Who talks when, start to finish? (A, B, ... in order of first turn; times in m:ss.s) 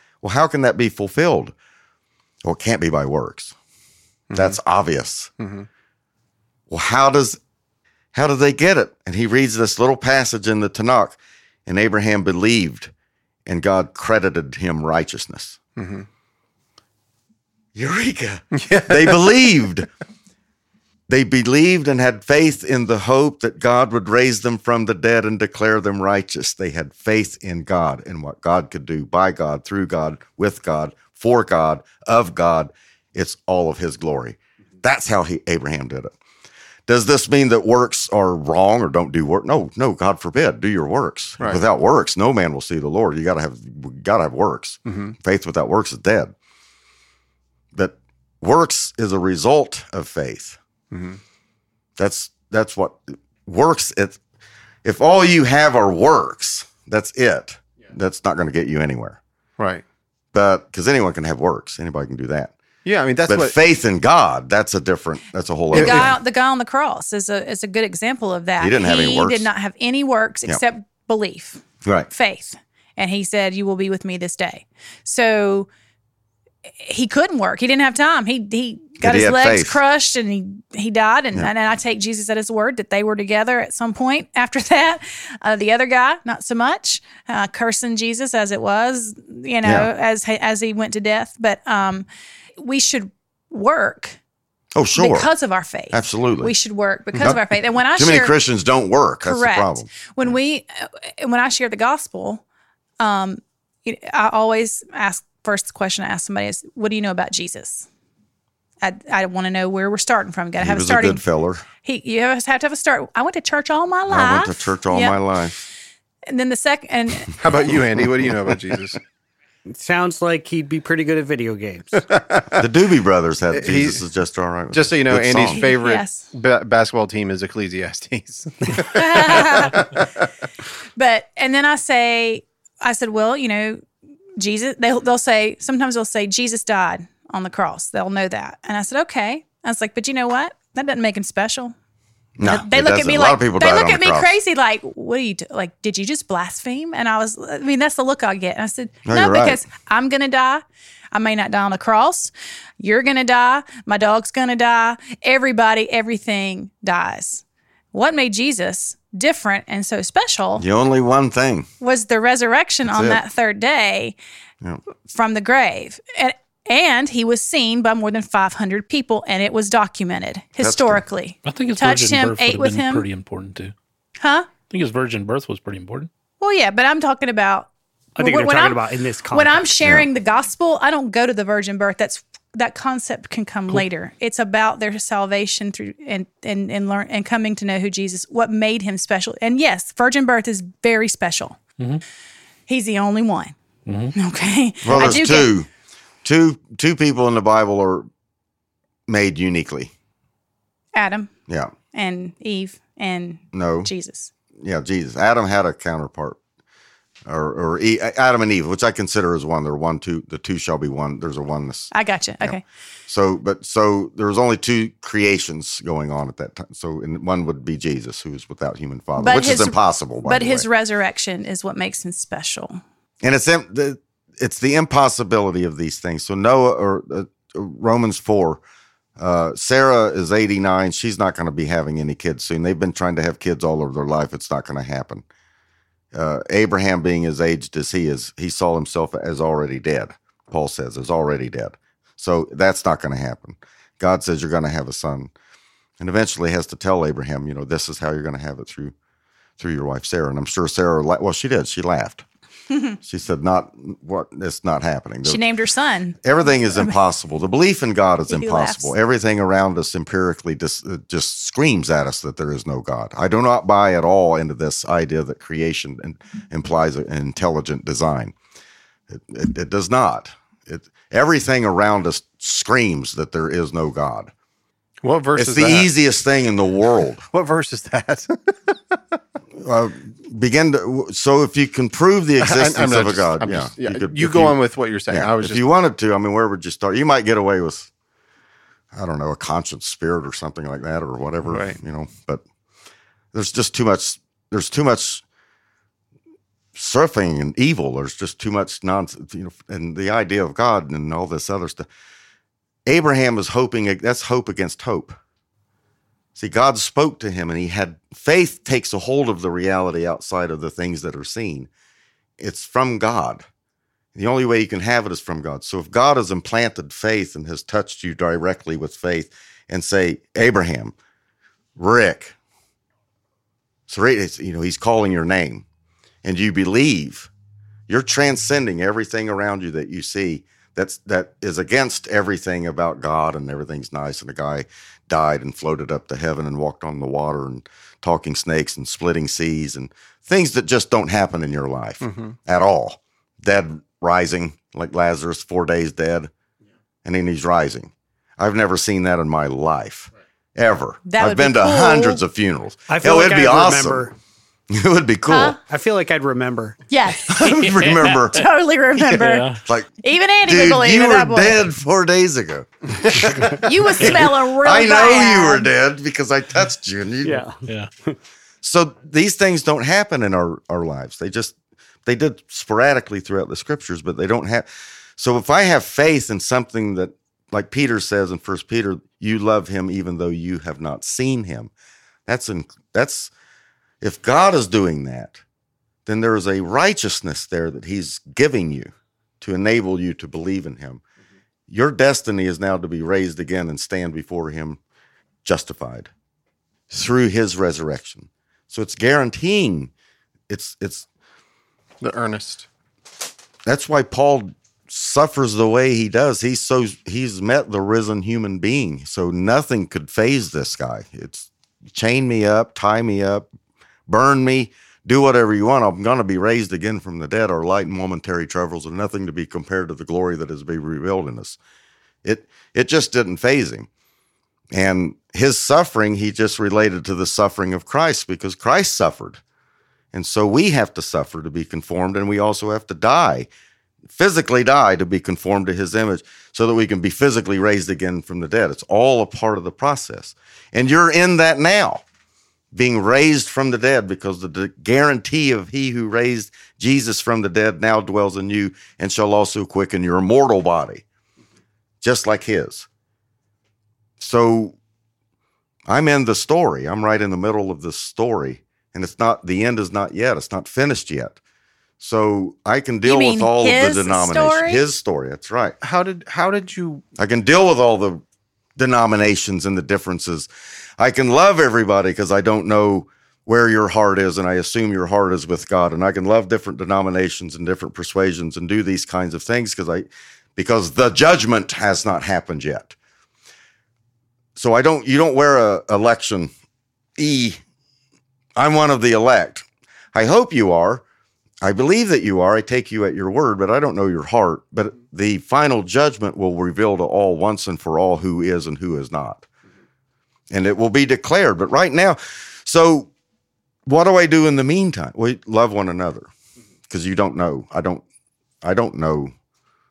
0:00.2-0:01.5 A
0:02.4-0:03.5 A
0:04.3-0:04.6 B
0:04.3-0:05.3 A
0:05.4-0:05.7 B
0:06.7-0:07.4 A
0:08.1-0:12.9 A
0:13.4-0:15.6 A
0:15.8-0:16.1 B
0:17.7-0:19.9 A
0:18.5-0:19.5 B
0:21.1-0:36.1 A
0:36.9-0:46.3 A
0:44.8-0:45.2 B
0:47.7-0:50.6 A
0:50.9-0:51.2 B
0:52.0-0:54.2 A
0:54.8-0:59.2 A
0:59.6-0:59.8 B
1:00.3-1:02.5 A
1:02.8-1:03.6 B
1:03.3-1:06.2 A
1:05.7-1:15.7 C
1:05.7-1:06.1 B
1:08.6-1:09.5 A
1:11.8-1:12.1 A
1:16.8-1:32.0 C
1:19.0-1:19.8 A
1:29.6-1:29.9 A
1:32.6-1:34.2 C
1:34.7-1:35.3 A
1:35.0-1:38.3 C
1:35.9-1:36.5 A
1:37.2-1:40.3 A
1:39.2-1:42.4 C
1:43.0-1:47.9 C
1:48.8-1:51.2 C
1:50.6-1:51.6 A
1:51.8-1:55.2 C
1:54.1-1:55.6 A
1:56.3-1:57.4 C
1:57.4-1:59.0 B
1:59.7-2:02.1 D
2:02.1-2:02.6 B
2:02.5-2:05.6 A
2:03.5-2:04.0 B
2:04.7-2:10.0 B
2:05.5-2:06.2 C
2:08.9-2:09.8 C
2:11.0-2:13.8 C
2:14.4-2:21.7 C
2:22.4-2:24.4 A
2:22.4-2:40.6 C
2:29.0-2:29.6 A
2:40.6-2:41.7 A
2:41.8-2:44.2 C
2:42.8-2:43.2 A
2:45.1-2:53.0 C
2:50.6-2:51.0 A
2:51.4-2:53.7 E
2:54.2-2:54.5 C
2:54.7-2:56.1 E
2:56.4-2:58.8 C
2:58.2-2:59.7 D
2:59.3-3:11.6 C
3:12.7-3:13.5 C
3:13.8-3:14.2 E
3:14.2-3:15.5 C
3:14.8-3:15.7 A
3:16.2-3:18.1 A
3:19.1-3:19.9 A
3:20.9-3:21.3 C
3:21.5-3:21.7 A
3:21.9-3:24.3 C
3:23.5-3:23.9 A
3:24.6-3:26.4 A
3:27.3-3:40.6 A
3:31.9-3:32.6 C
3:39.2-3:42.8 C
3:43.2-3:48.6 A
3:49.2-3:55.2 A
3:56.1-4:05.3 A
4:06.0-4:08.9 A
4:09.6-4:12.2 A
4:13.0-4:15.4 A
4:15.2-4:16.9 C
4:16.2-4:28.3 A
4:18.3-4:18.9 C
4:29.1-4:34.3 A
4:35.0-4:35.9 B
4:35.4-4:37.2 A
4:37.3-4:39.0 B
4:39.6-4:47.9 A
4:42.4-4:45.6 B
4:48.9-4:52.4 A
4:51.4-4:51.8 B
4:53.3-4:55.2 A
4:56.7-5:01.9 A
5:02.8-5:05.2 A
5:06.4-5:11.7 A
5:12.4-5:13.4 A
5:14.1-5:20.9 A
5:21.8-5:22.4 A
5:23.9-5:25.6 A
5:26.2-5:27.3 A
5:27.9-5:46.3 A
5:42.0-5:42.4 B
5:47.0-5:54.1 A
5:51.1-5:52.2 C
5:52.9-5:54.1 D
5:54.7-5:55.6 A
5:55.3-5:55.6 C
5:55.7-5:56.8 D
5:56.9-5:57.5 C
5:57.3-5:58.4 A
5:57.4-5:58.4 E
5:58.3-5:59.5 C
5:59.1-5:59.6 E
5:59.6-5:59.9 A
6:00.0-6:01.6 C
6:00.4-6:07.4 A
6:03.6-6:05.7 C
6:07.2-6:08.2 D
6:08.6-6:21.7 A
6:22.3-6:23.3 A
6:24.0-6:25.4 A
6:26.0-6:31.0 A
6:31.7-6:34.8 A
6:35.4-6:36.1 A
6:36.9-6:39.9 A
6:40.5-6:41.0 A
6:42.0-6:42.7 B
6:43.6-6:53.5 A
6:54.1-7:01.6 A
7:02.2-7:03.9 A
7:04.7-7:09.4 A
7:10.1-7:13.5 A
7:14.1-7:22.0 A
7:22.7-7:31.0 A
7:32.0-7:32.9 A
7:34.2-7:34.8 A
7:35.9-7:41.4 A
7:42.0-7:45.8 A
7:43.0-7:44.8 C
7:45.8-7:47.0 B
7:47.2-7:48.2 A
7:48.8-8:02.9 A
8:04.6-8:06.5 A
8:07.2-8:07.6 A
8:08.6-8:11.0 A
8:11.6-8:19.4 A
8:20.5-8:23.1 A
8:23.8-8:26.3 A
8:26.9-8:28.0 A
8:28.6-8:29.3 A